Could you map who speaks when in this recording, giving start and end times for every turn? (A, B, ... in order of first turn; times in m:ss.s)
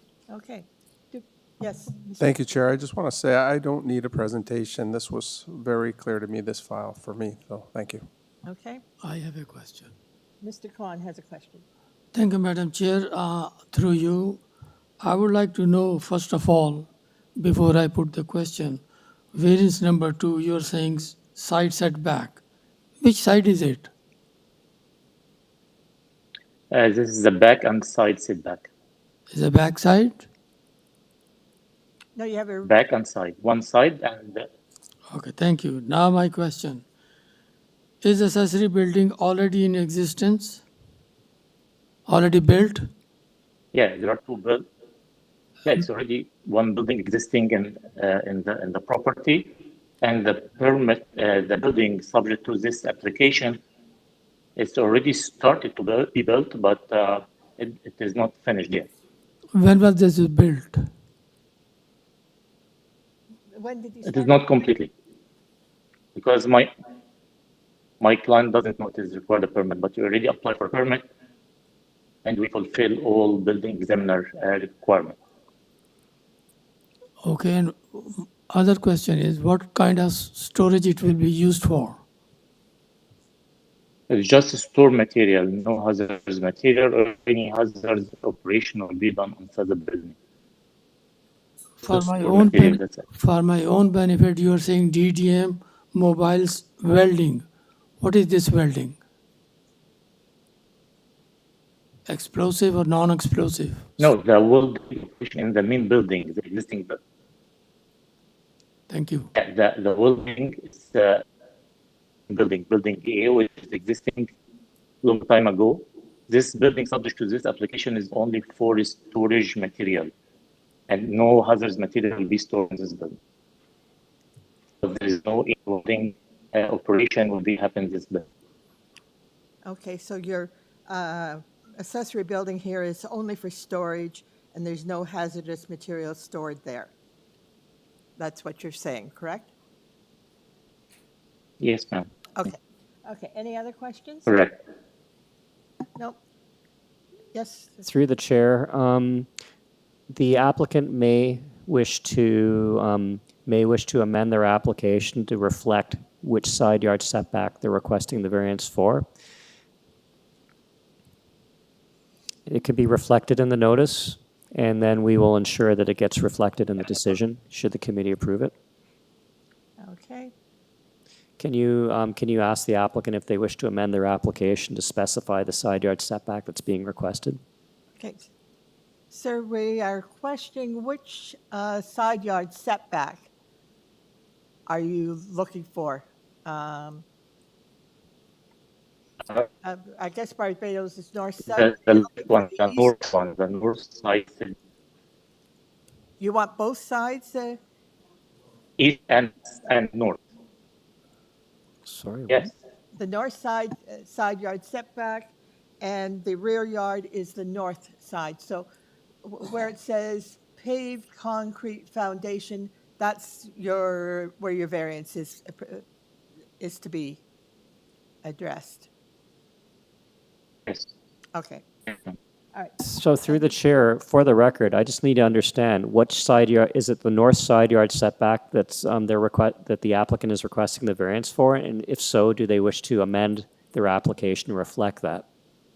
0:00.3-0:02.2 A
0:02.2-0:08.1 B
0:08.4-0:08.8 A
0:09.0-0:09.9 C
0:10.4-0:11.6 A
0:12.1-0:14.4 C
0:15.0-0:18.8 C
0:19.3-0:22.4 C
0:23.0-0:23.9 C
0:26.7-0:28.7 D
0:29.3-0:30.2 C
0:32.1-0:32.7 A
0:32.6-0:34.5 D
0:35.1-0:36.8 C
0:38.0-0:40.6 C
0:42.1-0:42.9 C
0:43.7-0:44.7 D
0:45.6-0:49.5 D
0:50.0-0:53.6 D
0:54.6-0:58.9 D
0:59.5-1:00.8 C
1:03.5-1:04.7 A
1:04.0-1:04.9 D
1:06.2-1:06.7 D
1:08.0-1:11.0 D
1:12.2-1:15.2 D
1:17.2-1:22.0 C
1:24.1-1:30.2 D
1:31.8-1:37.4 C
1:31.8-1:33.0 D
1:38.0-1:39.0 C
1:42.1-1:44.1 C
1:44.0-1:47.0 D
1:48.9-1:49.3 C
1:49.3-1:51.2 D
1:52.3-1:54.3 D
1:55.0-2:00.1 D
2:00.9-2:03.2 D
2:04.8-2:08.2 D
2:09.6-2:16.9 A
2:18.2-2:19.5 A
2:21.6-2:22.1 D
2:22.4-2:24.2 A
2:24.3-2:24.5 D
2:27.3-2:27.8 A
2:27.8-2:29.3 E
2:30.1-2:39.1 E
2:42.5-2:48.5 E
2:49.8-2:50.3 A
2:51.4-2:57.4 E
2:58.0-2:58.3 A
2:59.1-3:03.3 A
3:04.7-3:07.0 A
3:09.6-3:12.9 A
3:11.4-3:14.5 D
3:16.2-3:17.6 A
3:18.8-3:20.2 D
3:21.8-3:22.5 E
3:23.0-3:28.7 A
3:29.2-3:35.8 A
3:36.6-3:37.2 A
3:38.2-3:38.9 A
3:41.3-3:41.6 A
3:42.8-3:55.2 E